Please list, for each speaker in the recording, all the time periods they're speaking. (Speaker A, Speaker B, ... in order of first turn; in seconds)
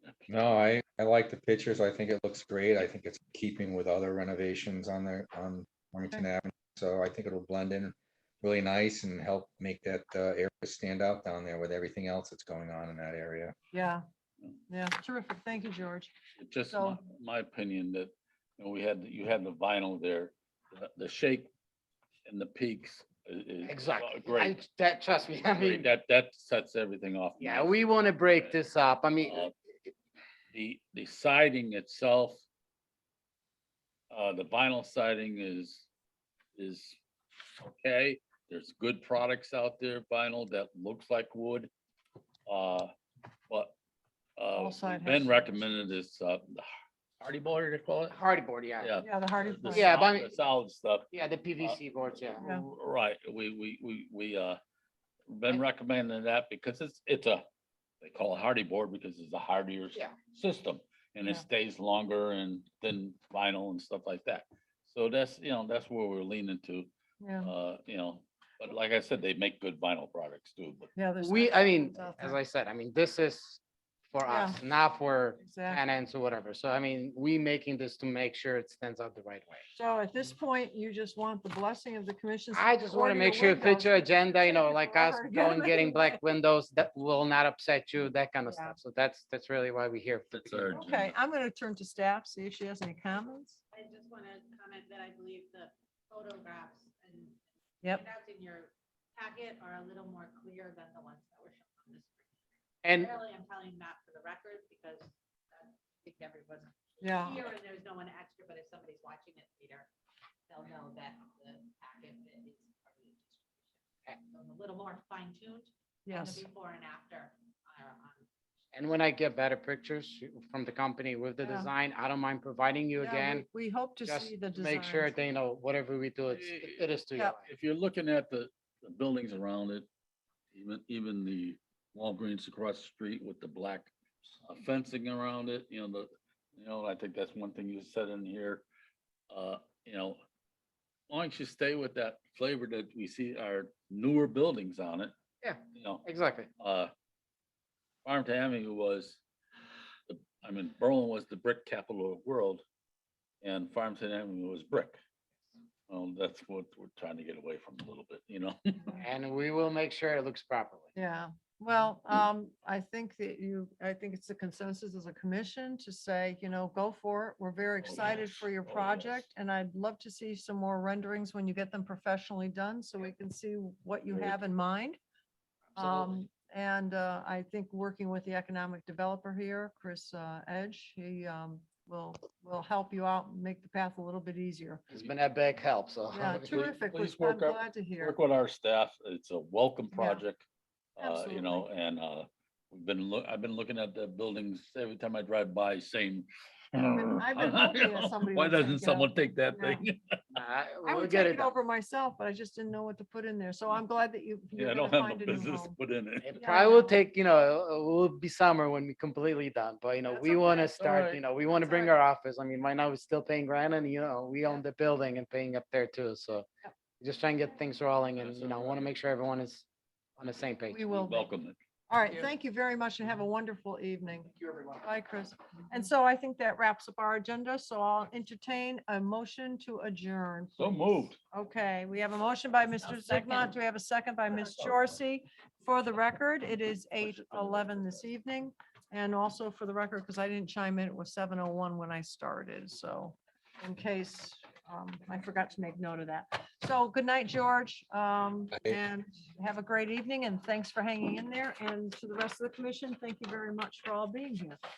Speaker A: 0.3-13.6
Speaker B: 13.7-14.0, 14.7-16.1, 16.7-17.0, 44.6-45.7, 49.0-50.0, 67.2-67.5, 71.0-72.4, 74.3-74.6, 75.4-75.8, 79.7-86.2, 88.5-88.8, 90.7-93.6, 107.0-107.4, 116.1-116.5, 121.4-121.7, 123.0-125.2, 160.9-175.0, 175.8-184.8, 186.1-188.2, 189.9-190.2, 191.0-191.7, 196.9-199.8, 200.8-205.8, 206.4-207.0, 211.6-211.9, 220.7-221.3, 221.9-254.6
Speaker C: 16.4-21.5, 22.3-24.6, 25.4-28.6, 29.2-29.5, 30.5-32.4, 34.1-35.9, 36.6-37.0, 37.6-41.7, 42.5-42.9, 44.4-46.7, 47.2-48.2, 48.8-51.1, 52.3-54.6, 55.3-57.5, 58.0-70.9, 90.3-91.2, 126.3-126.9, 127.5-129.9, 130.5-138.7, 139.3-140.2, 141.1-145.2, 145.7-146.0, 146.6-146.9, 148.1-149.2, 150.1-152.6, 153.4-155.0, 155.9-159.0, 167.8-169.3, 174.1-174.4, 186.3-190.4, 191.0-200.2, 204.6-206.4, 210.2-211.2, 218.2-218.9, 220.8-221.6, 230.6-231.2, 237.1-237.6
Speaker D: 23.6-25.9, 27.4-29.5, 48.1-49.0, 49.7-50.4, 51.1-52.5, 71.2-73.6, 74.1-79.7, 82.5-90.7, 102.8-103.1, 118.7-123.5, 124.0-127.5, 145.4-146.5, 158.9-160.9, 175.8-176.2, 184.9-186.5, 200.3-201.5, 206.2-216.5, 217.0-219.7, 220.2-220.8
Speaker E: 93.7-102.3, 102.9-109.9, 110.5-118.3, 232.9-233.2